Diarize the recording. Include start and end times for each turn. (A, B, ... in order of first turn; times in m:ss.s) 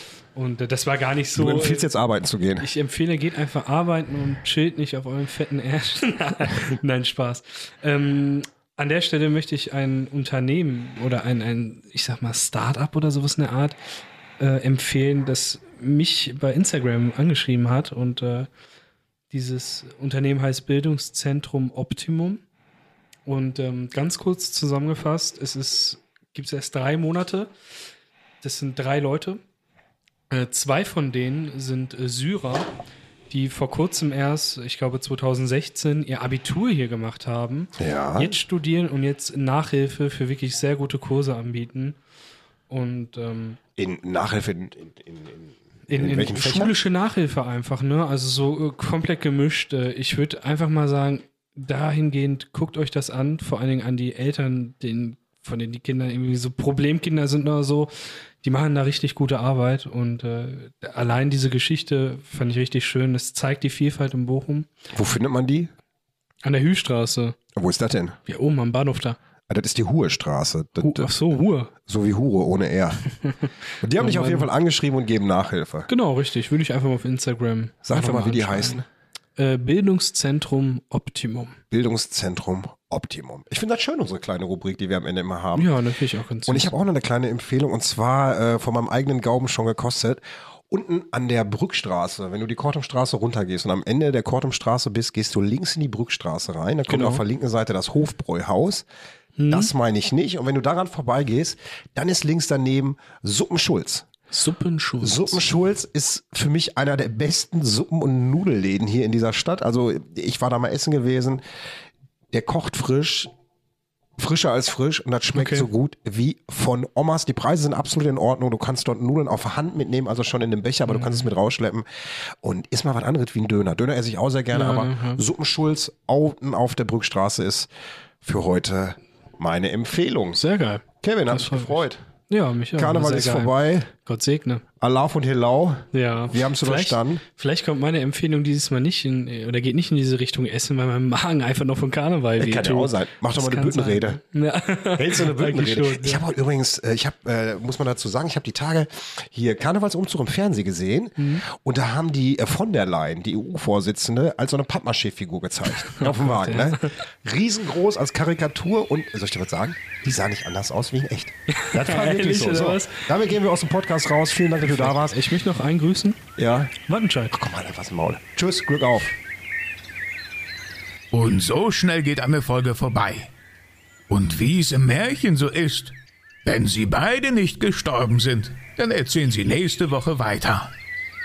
0:00.4-0:01.9 A
0:01.4-0:02.7 B
0:02.6-0:13.8 A
0:14.4-0:18.5 A
0:19.3-0:22.4 A
0:23.3-0:27.5 A
0:28.4-0:29.4 A
0:30.3-0:32.7 A
0:33.3-0:42.0 A
0:37.8-0:38.4 B
0:42.7-0:43.6 A
0:43.8-0:46.8 B
0:45.9-0:57.9 A
0:58.4-1:04.8 A
1:04.9-1:05.7 B
1:06.4-1:07.4 A
1:07.6-1:08.2 B
1:08.3-1:09.2 A
1:09.5-1:11.1 B
1:10.8-1:11.7 A
1:11.9-1:13.0 B
1:13.1-1:14.5 A
1:13.8-1:15.9 B
1:15.9-1:18.8 A
1:17.8-1:18.8 B
1:19.4-1:21.6 A
1:21.7-1:25.7 B
1:25.6-1:26.7 A
1:26.5-1:38.9 B
1:36.9-1:37.2 A
1:39.4-1:39.7 A
1:39.5-1:44.1 B
1:44.3-1:45.4 A
1:45.0-1:51.4 B
1:52.3-1:53.3 B
1:54.2-2:07.7 B
1:55.4-1:55.7 A
2:00.9-2:01.3 A
2:04.5-2:05.2 A
2:08.2-2:10.4 B
2:10.4-2:14.6 A
2:11.0-2:12.0 B
2:12.8-2:13.9 B
2:14.8-2:17.2 B
2:15.9-2:26.2 A
2:22.4-2:24.2 B
2:24.9-2:45.2 B
2:31.2-2:31.4 A
2:35.9-2:37.0 A
2:41.5-2:43.1 A
2:44.6-2:46.2 A
2:46.4-2:46.7 B
2:46.9-2:47.3 A
2:47.3-2:49.2 B
2:51.1-2:53.3 C
2:54.1-3:00.7 C